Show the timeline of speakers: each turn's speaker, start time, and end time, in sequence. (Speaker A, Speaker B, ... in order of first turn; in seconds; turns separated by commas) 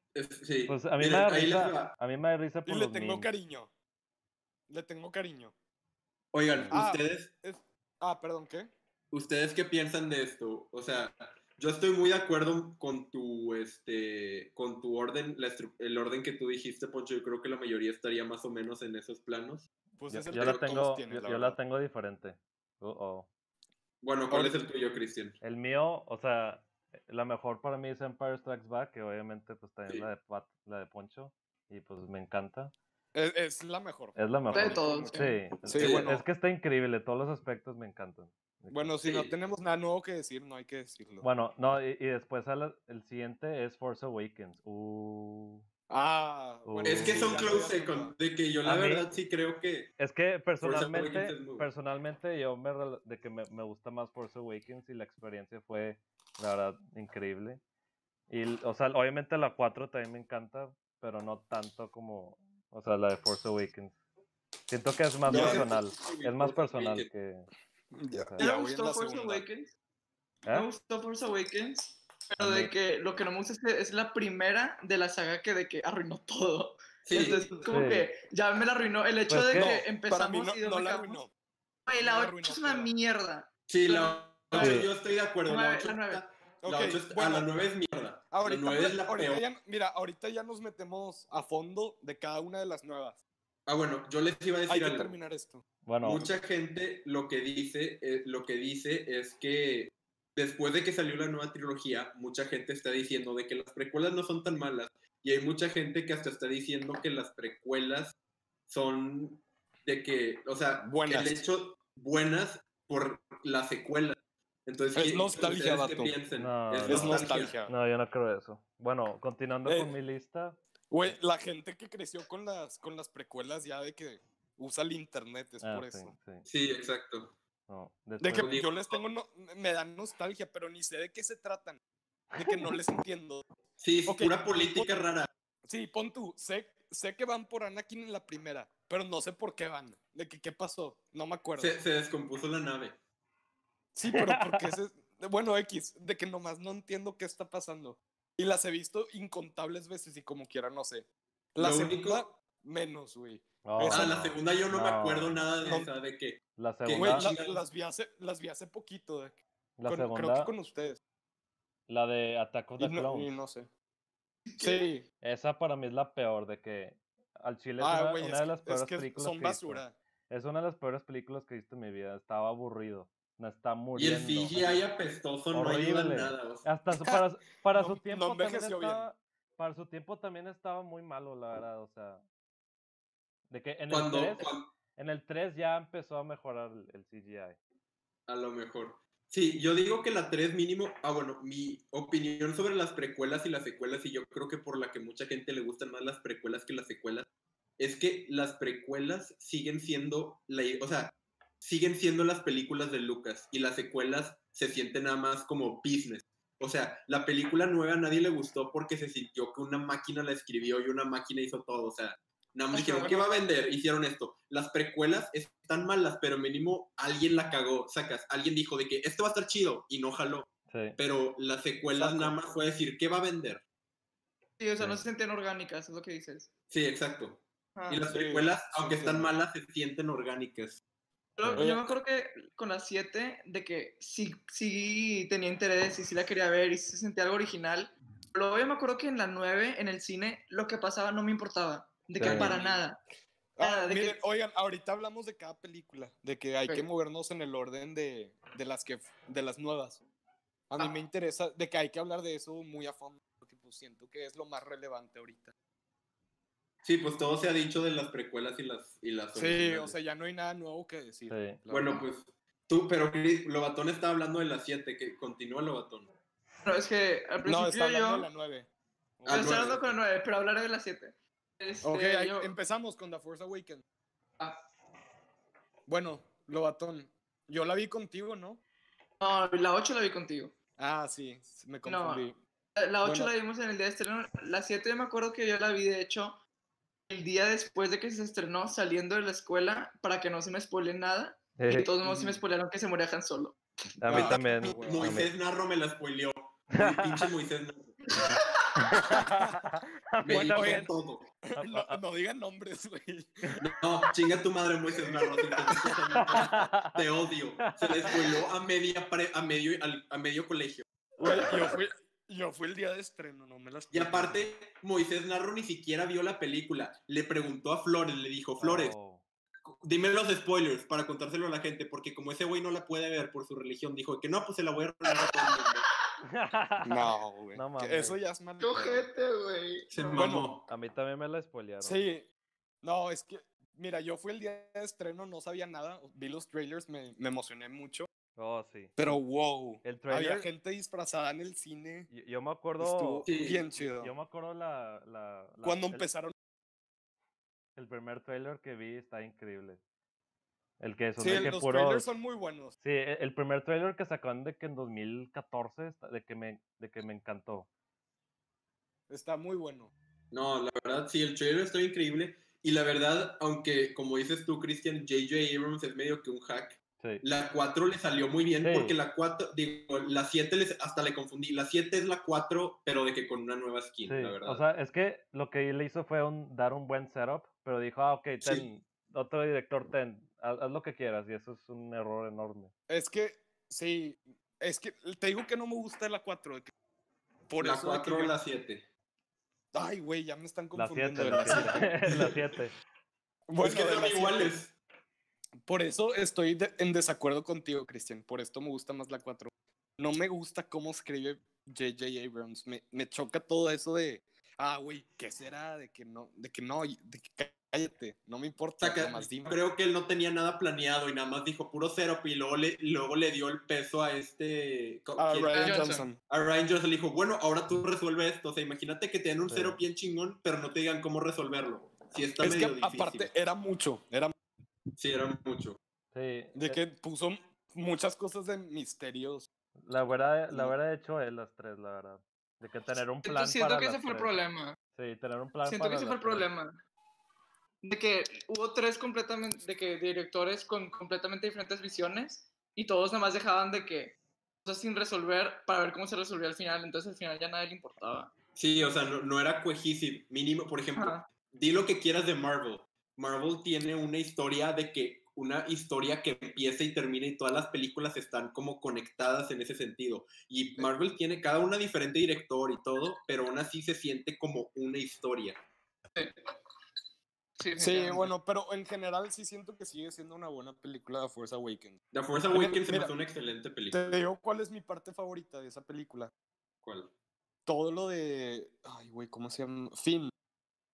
Speaker A: 0.1-1.9, Speaker B: 0.7-3.3, Speaker C: 2.6-3.7, Speaker C: 4.7-5.5, Speaker A: 6.3-7.3, Speaker B: 6.5-6.8, Speaker C: 6.7-8.7, Speaker A: 9.1-19.7, Speaker C: 20.0-21.6, Speaker B: 20.1-23.3, Speaker A: 20.3-20.7, Speaker A: 24.0-25.4, Speaker C: 24.3-24.6, Speaker B: 25.4-32.7, Speaker C: 33.1-36.2, Speaker B: 34.1-39.0, Speaker D: 34.5-35.4, Speaker A: 35.8-36.1, Speaker C: 38.7-41.3, Speaker A: 39.0-39.3, Speaker B: 41.2-45.6, Speaker C: 45.9-48.1, Speaker B: 46.6-47.6, Speaker A: 46.8-49.9, Speaker B: 48.6-49.1, Speaker B: 50.0-57.6, Speaker A: 50.6-51.7, Speaker B: 58.3-64.0, Speaker B: 64.7-67.5, Speaker C: 65.3-65.7, Speaker A: 65.3-67.1, Speaker C: 67.9-69.4, Speaker B: 68.1-68.4, Speaker D: 68.4-69.7, Speaker D: 70.5-81.2, Speaker B: 72.4-72.7, Speaker A: 77.0-77.5, Speaker B: 77.7-78.1, Speaker B: 79.3-79.8, Speaker C: 79.5-81.3, Speaker D: 81.8-84.2, Speaker C: 82.0-82.9, Speaker A: 83.7-89.4, Speaker C: 84.5-84.8, Speaker B: 84.6-84.9, Speaker D: 85.5-86.2, Speaker C: 86.6-87.5, Speaker C: 88.3-93.2, Speaker A: 93.7-95.1, Speaker C: 94.7-95.6, Speaker B: 95.8-96.2, Speaker A: 96.0-108.1, Speaker A: 108.7-117.5, Speaker C: 110.8-111.4, Speaker C: 114.9-116.1, Speaker B: 116.4-121.1, Speaker C: 116.8-117.7, Speaker C: 119.7-119.9, Speaker C: 120.9-126.1, Speaker B: 125.6-126.4, Speaker A: 126.4-127.3, Speaker B: 127.7-128.6, Speaker C: 128.2-131.8, Speaker A: 128.3-129.0, Speaker B: 132.3-132.7, Speaker C: 132.3-133.4, Speaker A: 133.8-135.3, Speaker C: 134.1-134.9, Speaker C: 135.6-141.8, Speaker A: 141.6-142.9, Speaker C: 143.9-154.1, Speaker B: 144.1-144.7, Speaker A: 151.6-152.2, Speaker B: 153.6-155.8, Speaker A: 153.9-157.6, Speaker C: 155.6-155.9, Speaker B: 156.6-157.3, Speaker C: 156.9-161.0, Speaker B: 159.8-160.5, Speaker B: 161.9-163.3, Speaker C: 162.8-163.7, Speaker D: 164.5-164.9, Speaker C: 164.6-165.0, Speaker B: 165.2-174.8, Speaker C: 167.8-169.9, Speaker A: 173.9-176.7, Speaker B: 175.5-182.2, Speaker C: 176.9-177.2, Speaker C: 177.7-179.1, Speaker B: 183.5-187.6, Speaker A: 183.9-184.7, Speaker A: 188.3-197.3, Speaker A: 197.8-223.6, Speaker D: 212.7-213.3, Speaker B: 220.7-221.0, Speaker C: 221.9-222.3, Speaker D: 224.6-226.5, Speaker B: 224.8-225.0, Speaker A: 226.7-230.8, Speaker C: 228.1-229.3, Speaker D: 231.4-243.0, Speaker C: 231.5-231.8, Speaker B: 242.2-242.6, Speaker A: 242.2-242.8, Speaker C: 242.3-242.7, Speaker C: 243.6-250.0, Speaker D: 243.6-244.2, Speaker C: 250.7-255.5, Speaker A: 256.8-259.9, Speaker C: 259.3-262.1, Speaker B: 261.3-261.6, Speaker A: 261.7-266.1, Speaker D: 266.6-268.3, Speaker C: 267.4-268.7, Speaker C: 269.2-269.6, Speaker A: 269.2-269.8, Speaker D: 269.3-272.5, Speaker C: 271.8-273.8, Speaker C: 275.9-278.6, Speaker D: 279.2-280.5, Speaker C: 280.8-282.4, Speaker D: 281.8-282.2, Speaker D: 282.8-286.4, Speaker C: 283.0-283.3, Speaker D: 287.1-293.6, Speaker B: 291.6-291.9, Speaker C: 292.0-292.4, Speaker B: 294.0-295.3, Speaker C: 294.0-295.2, Speaker A: 294.1-298.1, Speaker B: 296.8-297.2, Speaker D: 298.1-299.1, Speaker B: 298.8-300.9, Speaker C: 299.1-299.6, Speaker A: 300.2-301.2, Speaker C: 300.3-300.9, Speaker C: 301.5-303.4, Speaker B: 301.5-302.0, Speaker A: 303.6-310.8, Speaker C: 305.0-306.0, Speaker B: 306.1-306.9, Speaker B: 307.6-308.1, Speaker B: 311.2-311.4, Speaker C: 311.2-314.4, Speaker A: 313.9-318.9, Speaker B: 318.6-319.2, Speaker A: 319.7-325.9, Speaker D: 325.1-325.7, Speaker B: 326.3-328.2, Speaker C: 326.8-329.1, Speaker D: 328.6-330.3, Speaker A: 329.9-330.7, Speaker C: 330.1-330.5, Speaker B: 330.7-332.0, Speaker C: 331.8-332.3, Speaker C: 332.8-338.1, Speaker B: 338.4-339.1, Speaker C: 339.0-342.1, Speaker B: 339.8-340.5, Speaker B: 342.1-343.2, Speaker C: 342.8-344.1, Speaker A: 343.2-343.6, Speaker B: 344.0-346.1, Speaker C: 345.6-346.3, Speaker B: 347.8-349.8, Speaker B: 350.8-352.1, Speaker C: 351.2-352.7, Speaker B: 352.8-357.7, Speaker C: 359.1-359.9, Speaker A: 360.3-374.6, Speaker B: 368.6-368.9, Speaker B: 374.1-382.7, Speaker C: 382.9-386.7, Speaker C: 387.5-388.3, Speaker A: 387.6-388.9, Speaker C: 389.7-392.3, Speaker B: 390.7-392.7, Speaker C: 393.5-394.5, Speaker A: 393.6-394.7, Speaker C: 395.6-409.5, Speaker A: 408.8-423.3, Speaker C: 415.2-416.2, Speaker D: 415.5-416.0, Speaker B: 419.5-419.8, Speaker C: 422.4-424.3, Speaker A: 425.0-425.8, Speaker B: 426.1-426.8, Speaker C: 426.5-429.5, Speaker B: 429.9-434.3, Speaker D: 433.2-434.8, Speaker B: 434.9-436.4, Speaker D: 435.6-436.8, Speaker D: 437.8-448.3, Speaker A: 448.6-465.6, Speaker D: 451.0-451.2, Speaker D: 467.6-468.3, Speaker C: 467.8-472.0, Speaker A: 472.1-474.2, Speaker C: 472.5-473.1, Speaker C: 473.9-476.3, Speaker A: 476.8-477.1, Speaker C: 477.6-480.3